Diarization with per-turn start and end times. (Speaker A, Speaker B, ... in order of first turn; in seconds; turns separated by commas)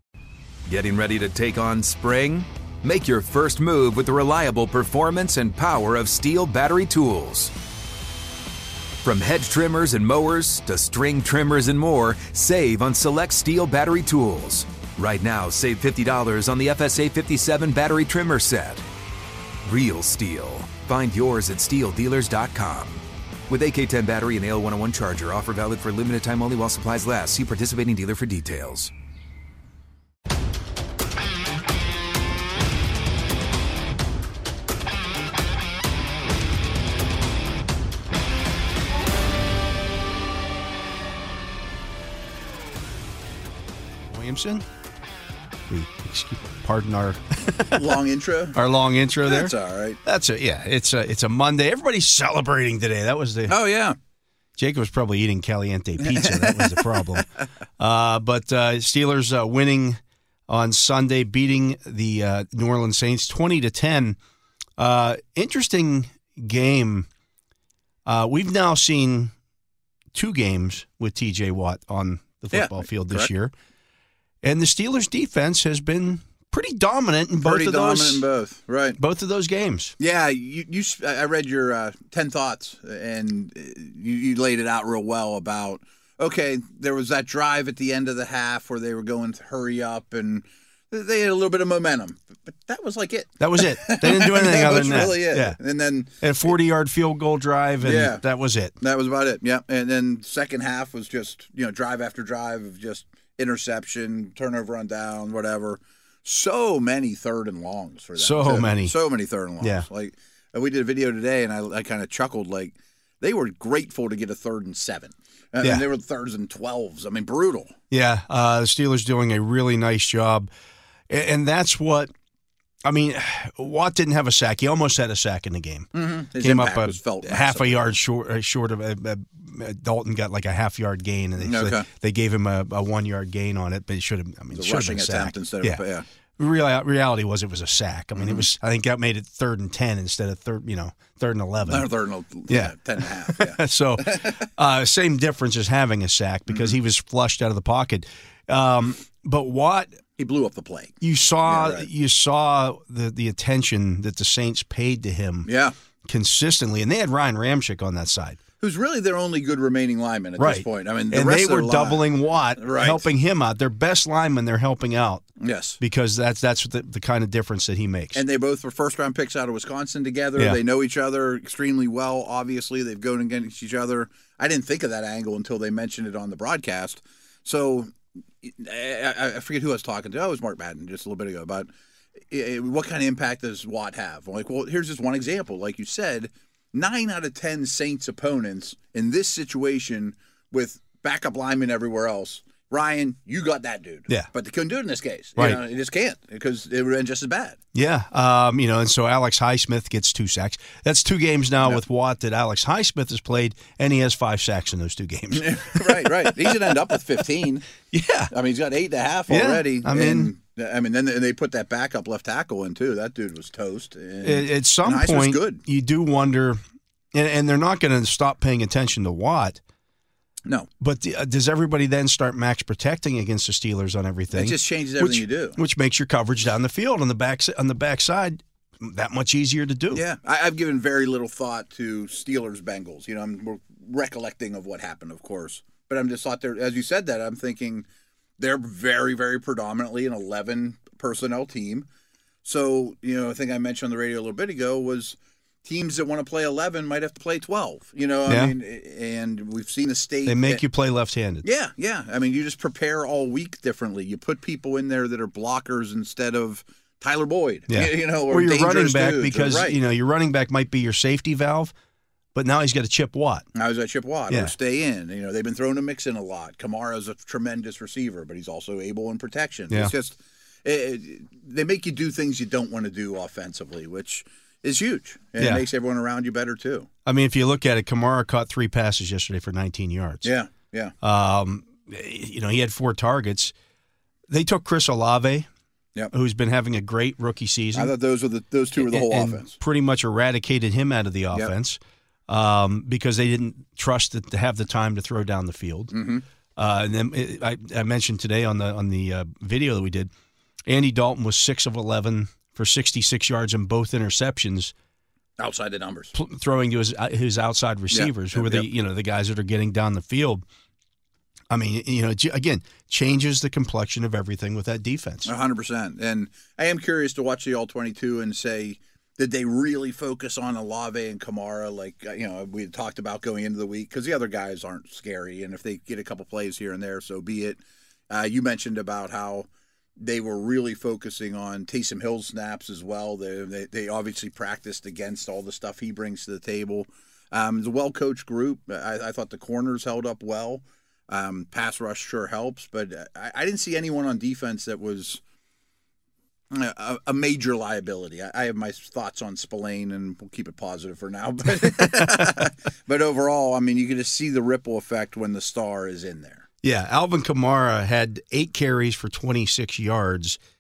Speaker A: 0.7-7.5, Speaker A: 9.0-18.9, Speaker A: 19.6-28.9, Speaker B: 44.1-44.7, Speaker B: 45.7-47.9, Speaker C: 47.7-48.6, Speaker B: 48.5-53.6, Speaker C: 49.2-50.0, Speaker C: 53.5-54.0, Speaker B: 54.6-57.3, Speaker C: 56.0-57.2, Speaker B: 57.8-64.2, Speaker B: 64.8-67.1, Speaker B: 68.1-69.3, Speaker B: 70.1-73.5, Speaker C: 72.5-73.3, Speaker B: 74.4-78.2, Speaker C: 77.4-79.0, Speaker B: 79.0-79.9, Speaker C: 80.0-96.5, Speaker B: 93.4-95.6, Speaker B: 96.2-98.8, Speaker C: 97.8-98.2, Speaker C: 98.8-117.8, Speaker B: 108.2-109.0, Speaker B: 109.6-109.9, Speaker B: 115.6-115.9, Speaker B: 117.9-120.5, Speaker B: 121.1-122.1, Speaker B: 122.8-125.9, Speaker C: 125.9-127.9, Speaker B: 126.4-135.8, Speaker C: 131.4-131.9, Speaker C: 134.6-136.1, Speaker B: 136.4-141.9, Speaker C: 138.2-138.5, Speaker C: 141.7-144.4, Speaker B: 142.5-150.0, Speaker C: 146.5-146.7, Speaker C: 150.2-151.9, Speaker B: 151.0-155.5, Speaker C: 155.5-155.8, Speaker B: 156.1-158.4, Speaker C: 158.6-162.0, Speaker B: 160.4-165.2, Speaker C: 162.6-163.0, Speaker C: 165.4-165.8, Speaker B: 165.8-168.2, Speaker C: 168.2-181.7, Speaker C: 182.3-197.6, Speaker B: 197.7-206.8, Speaker C: 205.3-207.7, Speaker B: 207.9-208.3, Speaker C: 208.3-215.6, Speaker B: 209.3-210.3, Speaker B: 214.2-216.6, Speaker B: 217.1-219.6, Speaker B: 220.8-230.0, Speaker C: 224.3-225.6, Speaker C: 229.9-237.9, Speaker C: 238.4-241.9, Speaker C: 242.4-250.6, Speaker B: 248.3-248.6, Speaker B: 250.3-251.5, Speaker C: 251.4-259.8, Speaker B: 257.7-261.7, Speaker B: 262.3-263.5, Speaker C: 263.6-276.9, Speaker B: 275.4-275.6, Speaker B: 277.1-280.3, Speaker C: 280.2-280.9, Speaker B: 281.0-283.5, Speaker B: 284.3-285.5, Speaker B: 286.1-287.9, Speaker C: 287.7-289.6, Speaker B: 288.8-295.9, Speaker C: 295.9-296.2, Speaker B: 296.6-300.1, Speaker B: 300.7-304.7, Speaker C: 305.4-306.1, Speaker B: 306.1-310.4, Speaker C: 307.9-308.7, Speaker B: 311.5-315.3, Speaker C: 315.3-327.6, Speaker C: 328.1-329.5, Speaker C: 330.0-345.2, Speaker C: 346.5-356.5, Speaker B: 351.6-352.4, Speaker B: 356.6-360.4